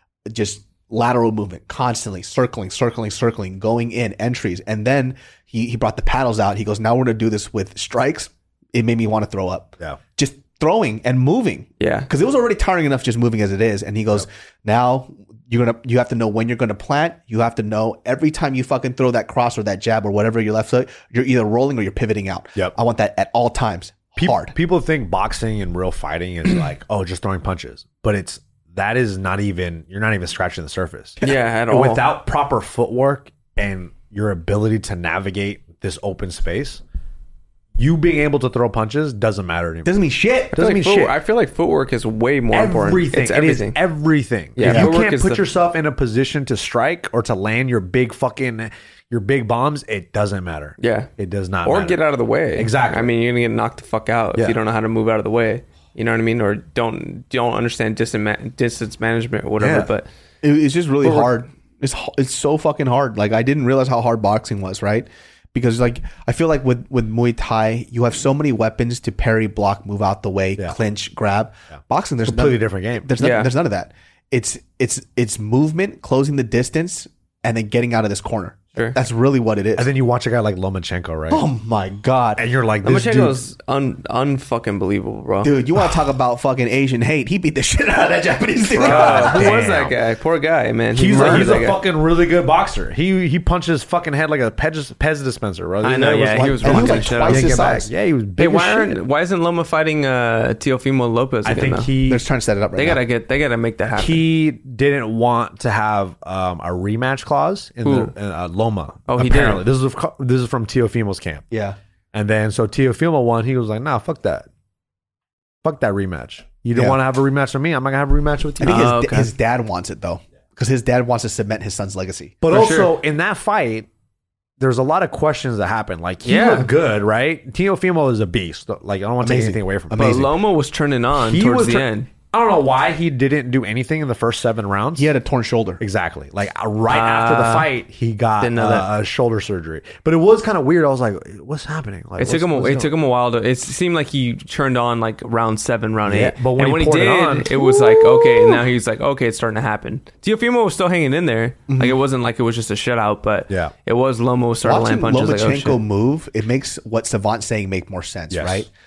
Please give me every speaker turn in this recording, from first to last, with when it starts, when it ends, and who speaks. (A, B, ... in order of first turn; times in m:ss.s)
0:00.3-0:24.5 A
0:11.8-0:12.1 B
0:24.2-0:36.8 C
0:31.2-0:32.0 B
0:37.8-0:39.9 C
0:39.8-0:40.6 A
0:40.5-0:41.1 C
0:40.6-0:43.8 B
0:42.5-0:52.0 C
0:44.6-0:45.4 B
0:44.6-0:44.9 A
0:50.8-0:51.1 B
0:51.6-1:00.0 B
0:52.6-0:53.1 C
0:59.6-0:59.9 C
1:00.4-1:19.9 A
1:12.2-1:13.1 C
1:13.2-1:13.5 B
1:19.8-1:21.4 C
1:21.3-1:22.4 A
1:22.4-1:23.4 C
1:22.8-1:25.6 B
1:25.4-1:29.6 A
1:28.8-1:31.8 B
1:28.8-1:29.9 C
1:30.9-1:39.0 C
1:35.8-1:37.6 B
1:36.6-1:37.9 A
1:38.4-1:41.9 B
1:41.4-1:42.2 C
1:42.1-1:43.0 A
1:42.8-1:44.2 B
1:43.9-1:51.4 C
1:47.8-1:48.1 B
1:49.1-1:49.6 B
1:51.5-1:51.8 A
1:52.1-1:54.5 C
1:55.6-1:58.9 C
1:58.6-2:02.3 A
1:58.6-1:59.3 B
2:02.4-2:03.9 C
2:02.5-2:02.9 B
2:04.6-2:10.3 C
2:06.2-2:06.7 B
2:09.2-2:10.2 A
2:10.0-2:12.1 B
2:11.2-2:15.1 C
2:15.0-2:15.8 A
2:15.8-2:22.9 C
2:16.9-2:17.7 B
2:18.4-2:18.8 B
2:22.2-2:35.8 B
2:26.0-2:27.6 C
2:27.5-2:28.6 A
2:31.7-2:32.0 A
2:34.6-2:38.7 A
2:38.3-2:38.7 C